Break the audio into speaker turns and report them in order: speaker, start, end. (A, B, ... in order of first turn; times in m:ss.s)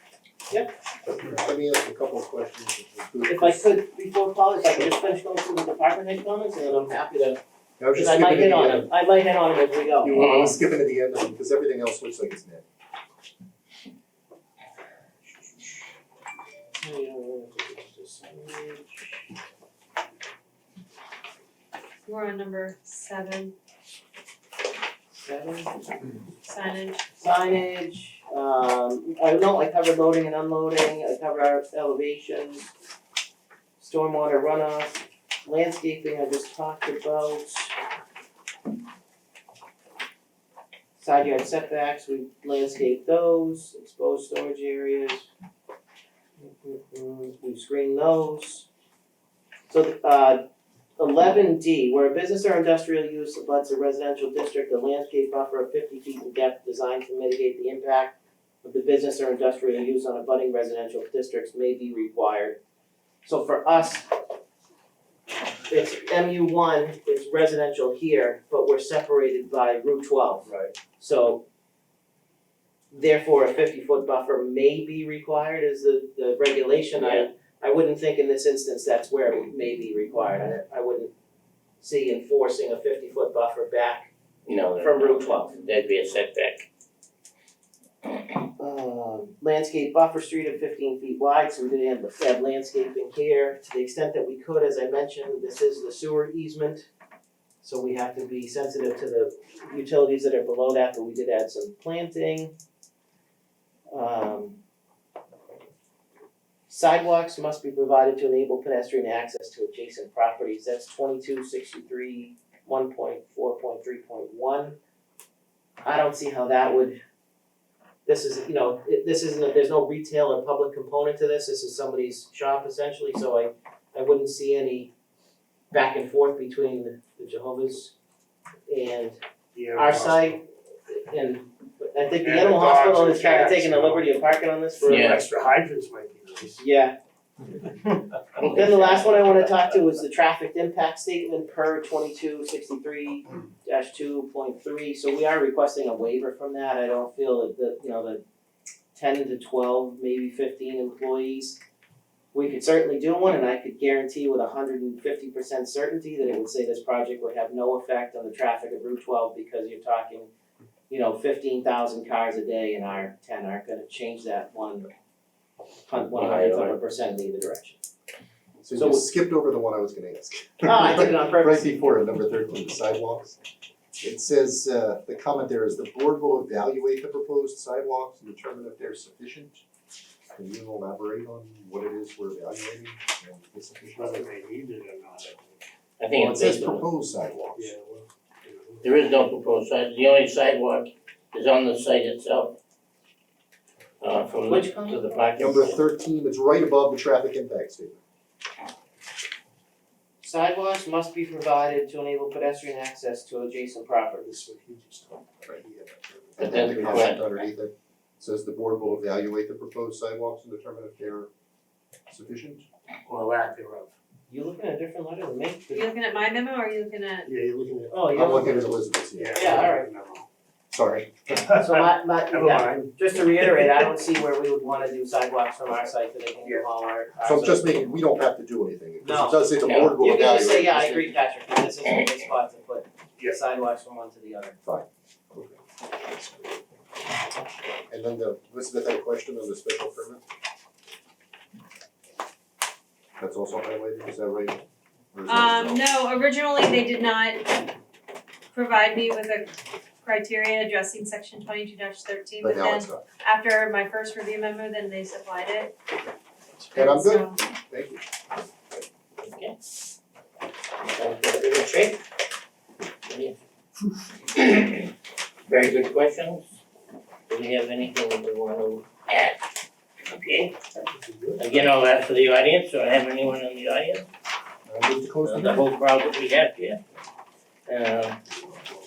0:00.5-0:00.8 A
0:01.2-0:03.7 B
0:03.2-0:07.4 A
0:07.8-0:08.9 B
0:07.9-0:10.3 A
0:10.0-0:12.6 B
0:10.1-0:10.5 C
0:16.8-0:19.2 A
0:22.0-0:23.5 D
0:25.2-0:26.0 A
0:26.4-0:27.0 D
0:27.2-0:32.7 A
0:33.8-0:37.7 A
0:41.0-0:45.3 A
0:46.4-0:48.7 A
0:49.7-0:50.4 A
0:51.0-1:02.6 A
1:03.2-1:04.1 A
1:05.7-1:11.4 A
1:10.5-1:10.7 E
1:12.9-1:21.1 A
1:16.9-1:17.3 C
1:21.8-1:24.1 A
1:24.5-1:26.7 C
1:24.8-1:25.6 A
1:28.6-1:36.9 A
1:37.6-1:42.6 A
1:43.9-1:44.6 A
1:46.7-1:54.8 A
1:55.8-1:57.0 A
1:58.0-2:04.9 A
2:05.7-2:07.9 A
2:08.7-2:09.2 A
2:09.5-2:10.4 E
2:09.8-2:15.2 A
2:12.2-2:14.1 E
2:14.8-2:16.6 E
2:14.9-2:15.2 C
2:16.6-2:17.0 A
2:18.4-2:19.2 C
2:18.4-2:28.2 A
2:29.0-2:31.6 A
2:32.3-2:40.3 A
2:40.9-2:44.9 A
2:45.9-2:47.8 A
2:46.1-2:46.8 C
2:48.6-2:53.4 B
2:48.7-2:49.0 A
2:50.6-2:51.7 A
2:54.0-2:59.6 B
3:00.3-3:04.2 B
3:04.0-3:05.6 E
3:06.0-3:06.9 C
3:06.2-3:07.8 B
3:07.6-3:08.8 E
3:08.8-3:12.6 C
3:14.0-3:15.8 C
3:14.5-3:15.0 A
3:15.4-3:18.0 B
3:20.2-3:24.3 A
3:24.2-3:26.5 E
3:26.3-3:31.3 B
3:26.4-3:27.3 C
3:32.1-3:32.7 B
3:33.0-3:33.9 E
3:34.3-3:35.8 A
3:35.7-3:37.3 D
3:37.2-3:40.3 E
3:37.9-3:38.6 A
3:38.2-3:39.7 B
3:39.3-3:39.9 A
3:40.7-3:41.3 B
3:41.4-3:43.8 E
3:41.6-3:47.8 A
3:47.2-3:51.1 B
3:49.0-3:54.6 A
3:49.6-3:50.0 C
3:54.6-3:55.5 B
3:57.9-4:00.2 B
4:03.2-4:04.6 B
4:05.1-4:05.9 B
4:05.3-4:07.7 D
4:08.5-4:15.7 D
4:12.4-4:13.0 B
4:16.6-4:17.4 D
4:16.7-4:18.0 B
4:19.2-4:19.5 C
4:20.9-4:22.0 C
4:23.1-4:23.3 C
4:24.3-4:24.9 C
4:25.5-4:26.6 C
4:27.3-4:29.4 C
4:30.1-4:30.5 C
4:30.8-4:31.7 E
4:31.4-4:34.1 C
4:34.7-4:35.7 B
4:35.2-4:36.8 C
4:37.7-4:38.2 C